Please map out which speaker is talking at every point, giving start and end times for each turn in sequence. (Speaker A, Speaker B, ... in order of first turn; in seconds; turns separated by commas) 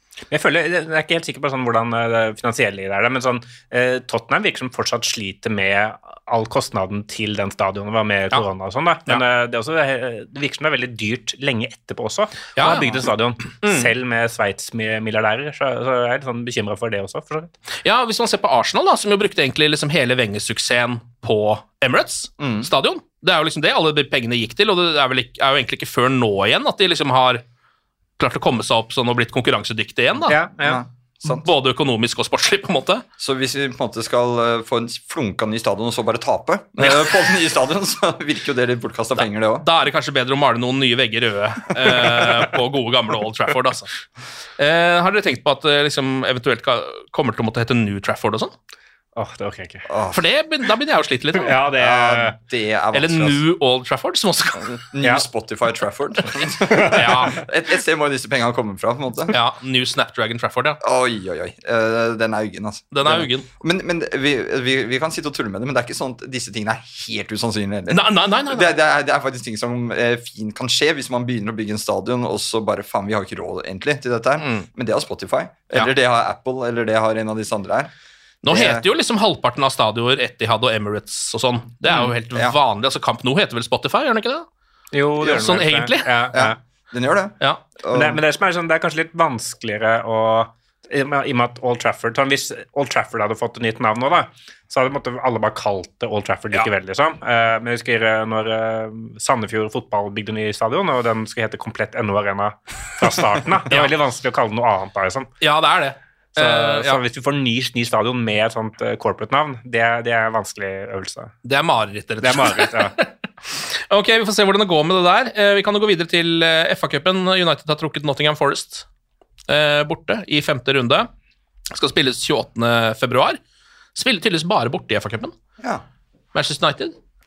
Speaker A: 0.3-17.5, Speaker B: 12.6-13.1, Speaker B: 13.6-13.9, Speaker B: 17.8-27.4, Speaker C: 22.4-22.7, Speaker B: 28.2-30.4, Speaker A: 30.3-30.8, Speaker C: 30.6-31.5, Speaker B: 31.2-33.0, Speaker C: 33.2-39.7, Speaker B: 39.2-43.9, Speaker B: 44.6-48.5, Speaker A: 49.2-49.9, Speaker C: 49.9-50.2, Speaker B: 50.1-51.6, Speaker A: 51.4-52.4, Speaker C: 51.8-53.4, Speaker B: 52.9-54.9, Speaker C: 54.7-59.4, Speaker B: 56.9-57.4, Speaker B: 59.3-60.8, Speaker C: 60.8-77.9, Speaker B: 62.9-63.5, Speaker B: 67.9-68.7, Speaker B: 74.4-74.7, Speaker B: 78.4-84.5, Speaker C: 78.5-78.8, Speaker A: 84.9-86.6, Speaker B: 85.2-86.1, Speaker C: 86.3-88.2, Speaker A: 87.9-105.3, Speaker B: 105.4-107.0, Speaker A: 106.4-111.3, Speaker B: 111.5-118.9, Speaker A: 112.2-113.0, Speaker B: 119.5-121.1, Speaker B: 121.7-123.4, Speaker B: 124.0-125.3, Speaker C: 125.6-125.8, Speaker B: 126.3-126.9